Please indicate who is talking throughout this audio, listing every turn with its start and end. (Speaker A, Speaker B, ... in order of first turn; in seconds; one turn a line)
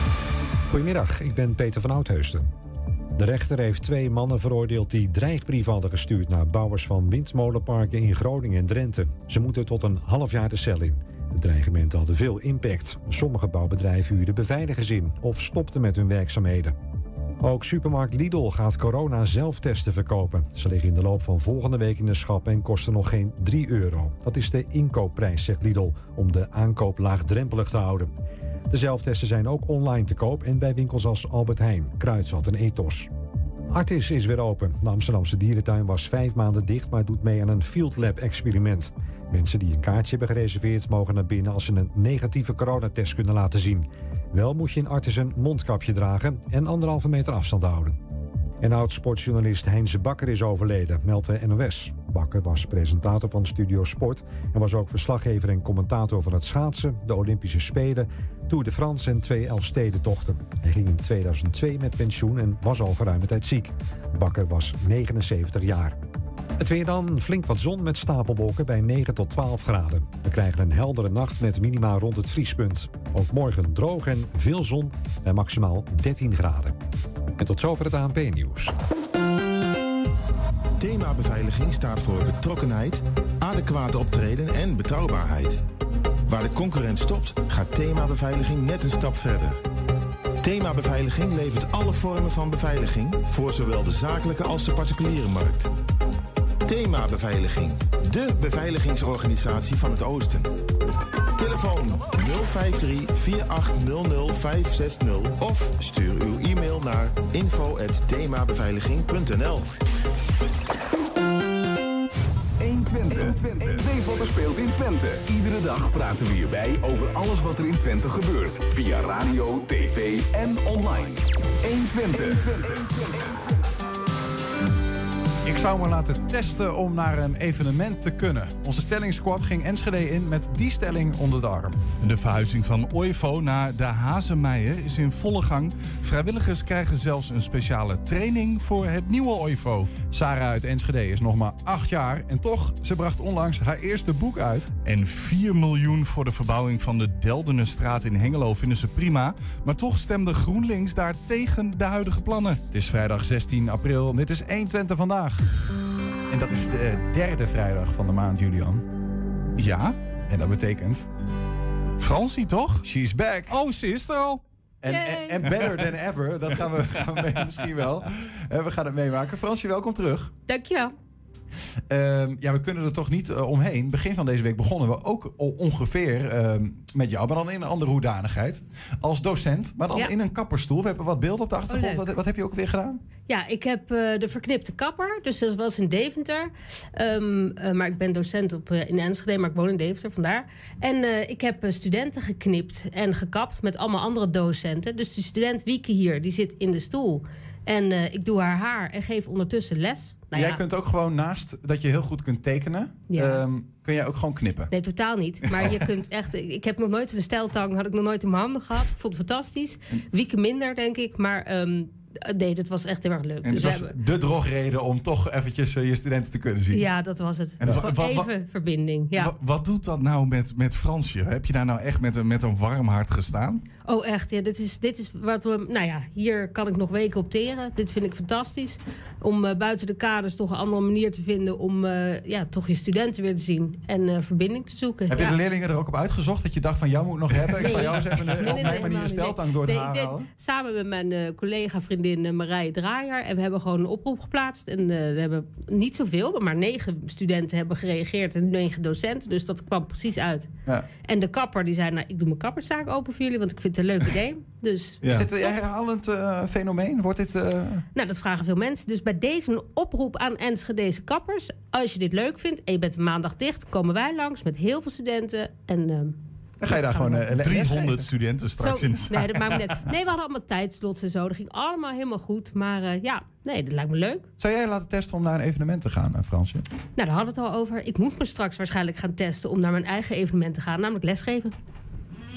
Speaker A: 0.7-2.5
Speaker A: 3.1-16.8
Speaker A: 17.4-28.1
Speaker A: 28.7-33.1
Speaker A: 33.7-48.0
Speaker A: 48.6-66.0
Speaker A: 66.6-76.8
Speaker A: 77.4-78.7
Speaker B: 80.8-85.6
Speaker B: 86.3-89.5
Speaker B: 90.4-95.7
Speaker B: 96.7-100.5
Speaker B: 101.4-109.8
Speaker C: 112.6-123.3
Speaker D: 125.4-131.8
Speaker E: 132.0-139.9
Speaker D: 140.1-144.7
Speaker E: 144.8-152.6
Speaker D: 152.7-155.6
Speaker D: 156.3-158.8
Speaker E: 159.6-160.0
Speaker D: 160.3-161.1
Speaker E: 162.0-162.8
Speaker D: 162.8-163.5
Speaker E: 163.5-164.4
Speaker D: 164.8-170.3
Speaker E: 165.5-165.8
Speaker E: 166.7-167.4
Speaker F: 170.5-170.9
Speaker D: 171.9-183.0
Speaker F: 181.7-182.0
Speaker F: 183.3-200.6
Speaker D: 200.3-204.7
Speaker F: 203.1-203.4
Speaker F: 204.7-213.9
Speaker D: 213.5-216.9
Speaker F: 216.7-219.3
Speaker D: 217.6-217.8
Speaker E: 217.6-218.3
Speaker E: 219.1-223.6
Speaker F: 223.8-235.3
Speaker D: 235.1-240.2
Speaker F: 237.6-250.5
Speaker F: 251.0-255.5
Speaker D: 255.0-257.8
Speaker F: 257.9-267.3
Speaker D: 266.6-268.0
Speaker E: 267.4-269.6
Speaker F: 268.6-274.3
Speaker D: 274.4-276.6
Speaker F: 277.0-281.5